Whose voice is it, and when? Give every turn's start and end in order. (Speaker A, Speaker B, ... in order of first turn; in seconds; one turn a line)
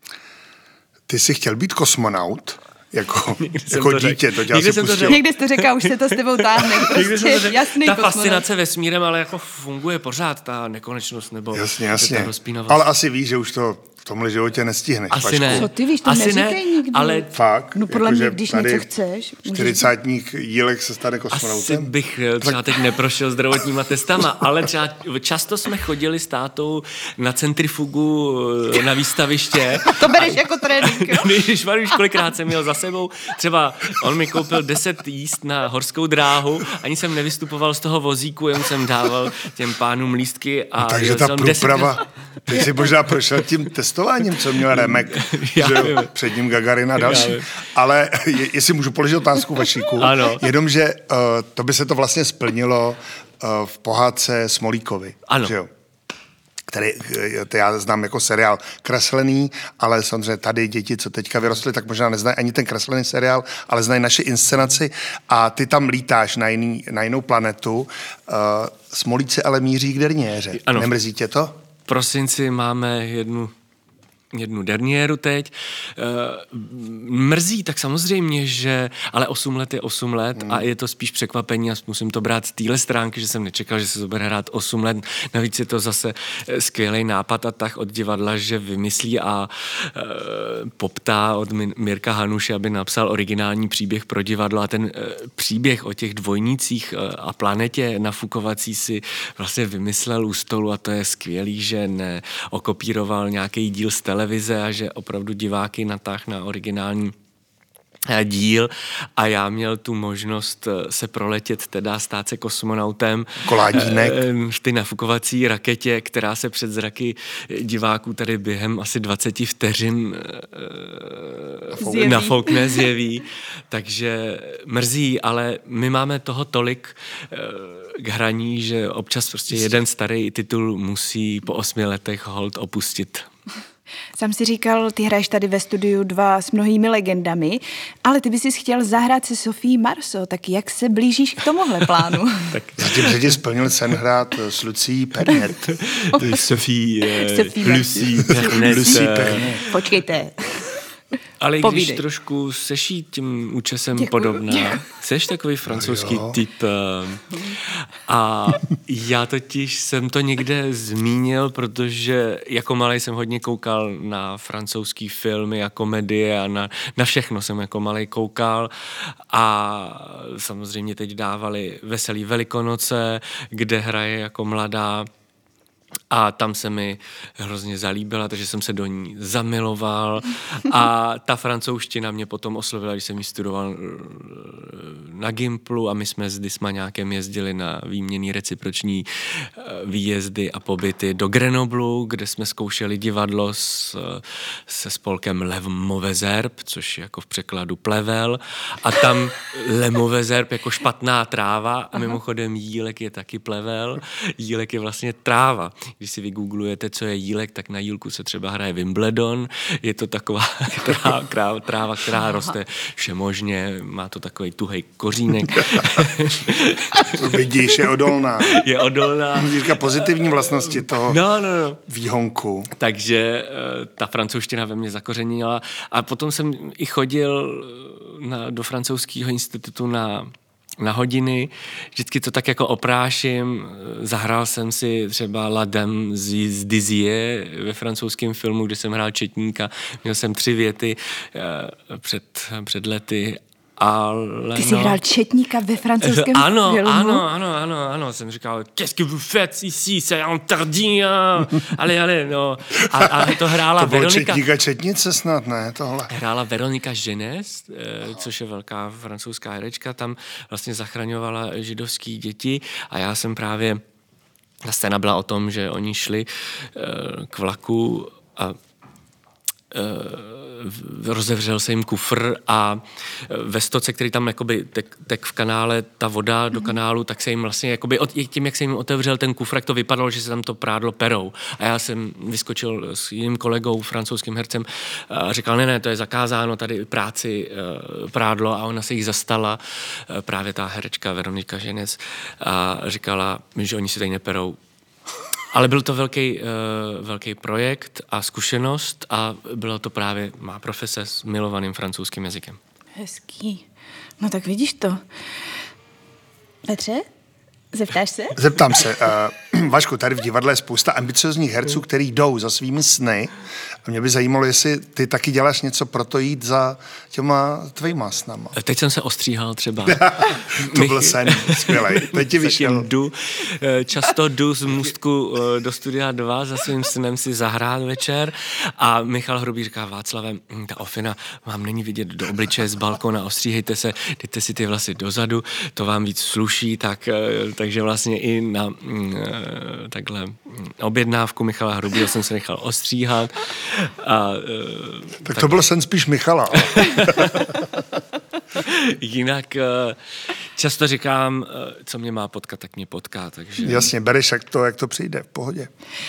Speaker A: 1.1-5.2
Speaker B: 3.4-5.8
Speaker C: 5.1-8.4
Speaker B: 6.4-12.9
Speaker A: 11.5-15.7
Speaker B: 15.1-17.3
Speaker C: 15.5-19.9
Speaker A: 17.3-18.9
Speaker A: 19.4-22.7
Speaker B: 21.3-42.0
Speaker C: 29.8-31.4
Speaker A: 40.8-55.7
Speaker B: 44.7-46.2
Speaker B: 47.0-47.5
Speaker B: 50.0-50.4
Speaker B: 55.3-55.5
Speaker A: 56.7-71.6
Speaker B: 70.6-70.9
Speaker B: 71.9-73.5
Speaker B: 74.3-107.1
Speaker A: 80.4-80.6
Speaker B: 108.1-133.3
Speaker A: 113.4-114.2
Speaker A: 121.8-122.2
Speaker C: 121.8-122.9
Speaker A: 129.5-129.8
Speaker C: 134.2-142.5
Speaker B: 142.5-143.1
Speaker A: 142.8-146.3
Speaker B: 145.7-149.6
Speaker C: 147.1-150.8
Speaker A: 148.3-149.6
Speaker B: 151.4-175.1
Speaker C: 151.6-152.0
Speaker C: 153.9-154.8
Speaker A: 155.7-156.4
Speaker B: 176.1-217.8
Speaker A: 217.1-218.6
Speaker B: 218.4-221.8
Speaker A: 219.3-221.2
Speaker A: 221.9-222.7
Speaker B: 222.7-245.0
Speaker C: 244.6-247.2
Speaker B: 246.0-254.4
Speaker A: 253.0-256.1
Speaker B: 256.1-263.8
Speaker B: 264.6-268.6
Speaker B: 269.7-294.6
Speaker B: 295.5-302.6
Speaker C: 302.9-303.6
Speaker C: 304.2-305.0
Speaker C: 306.6-307.1
Speaker C: 307.7-308.4
Speaker A: 308.4-313.3
Speaker A: 313.8-318.6
Speaker B: 318.6-345.6
Speaker A: 319.9-322.9
Speaker A: 345.2-347.8
Speaker B: 346.6-347.6
Speaker B: 348.6-353.9
Speaker A: 353.6-355.7